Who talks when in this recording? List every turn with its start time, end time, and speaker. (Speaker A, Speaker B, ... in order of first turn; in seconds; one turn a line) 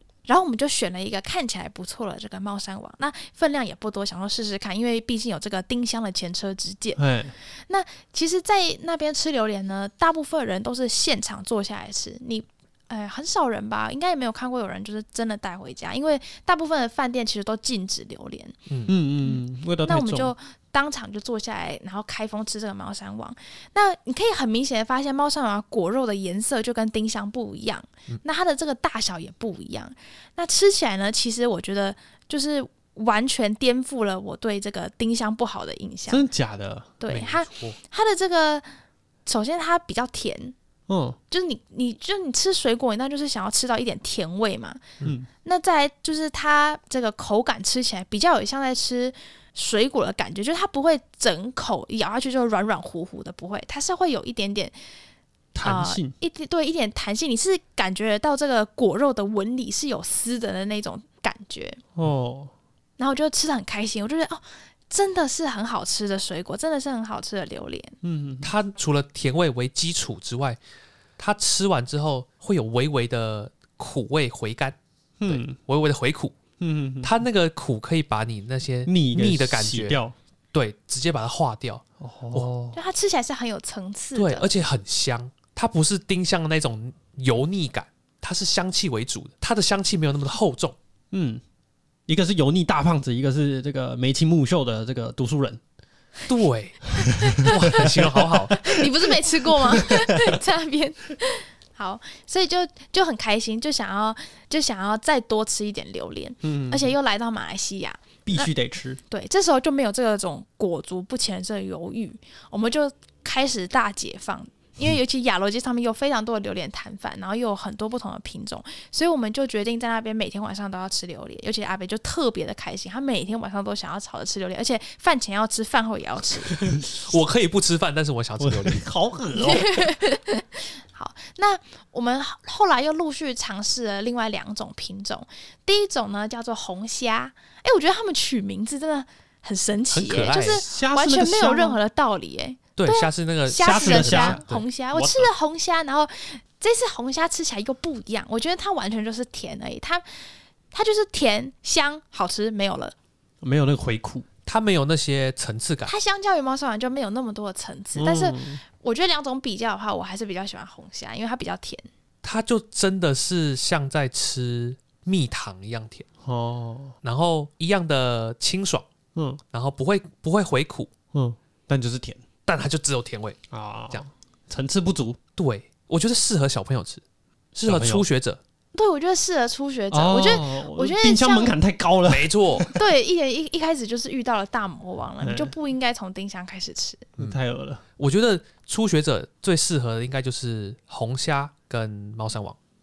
Speaker A: 0.3-7.0
Speaker B: 7.0-7.3
Speaker A: 7.7-18.6
Speaker C: 18.7-18.9
Speaker B: 18.9-20.3
Speaker A: 19.2-36.3
Speaker B: 36.1-37.0
Speaker A: 37.0-38.6
Speaker C: 37.1-37.8
Speaker A: 39.3-40.5
Speaker B: 40.9-41.2
Speaker A: 41.3-54.8
Speaker B: 45.0-45.3
Speaker B: 55.5-56.1
Speaker A: 55.6-61.8
Speaker B: 62.0-62.5
Speaker A: 63.0-68.0
Speaker B: 68.0-68.5
Speaker C: 68.4-70.6
Speaker C: 71.2-76.3
Speaker B: 75.2-75.6
Speaker B: 76.6-77.1
Speaker C: 77.0-80.0
Speaker B: 78.9-80.1
Speaker C: 80.5-82.8
Speaker B: 82.0-82.5
Speaker A: 82.7-84.5
Speaker C: 84.2-90.8
Speaker B: 91.1-91.4
Speaker B: 92.1-95.6
Speaker C: 96.3-98.7
Speaker B: 97.0-98.9
Speaker A: 97.2-97.7
Speaker A: 98.5-108.5
Speaker B: 99.5-100.4
Speaker B: 106.4-106.9
Speaker B: 108.2-109.0
Speaker A: 109.1-126.6
Speaker C: 126.6-128.9
Speaker B: 128.4-129.9
Speaker A: 129.3-152.9
Speaker C: 139.9-140.6
Speaker B: 140.4-141.8
Speaker C: 142.8-144.6
Speaker B: 143.6-144.4
Speaker B: 144.9-145.3
Speaker B: 153.4-154.3
Speaker C: 154.5-155.9
Speaker A: 155.9-161.9
Speaker B: 158.0-158.6
Speaker C: 162.2-166.1
Speaker B: 166.2-166.9
Speaker C: 167.0-168.9
Speaker B: 169.2-169.4
Speaker C: 169.5-170.9
Speaker B: 171.1-172.2
Speaker C: 172.5-174.1
Speaker B: 173.5-175.2
Speaker C: 175.4-177.0
Speaker C: 177.6-178.4
Speaker B: 177.7-178.1
Speaker A: 178.7-181.6
Speaker B: 179.9-182.8
Speaker C: 182.1-182.7
Speaker A: 182.8-187.1
Speaker B: 185.2-185.5
Speaker B: 187.2-187.8
Speaker C: 188.0-192.6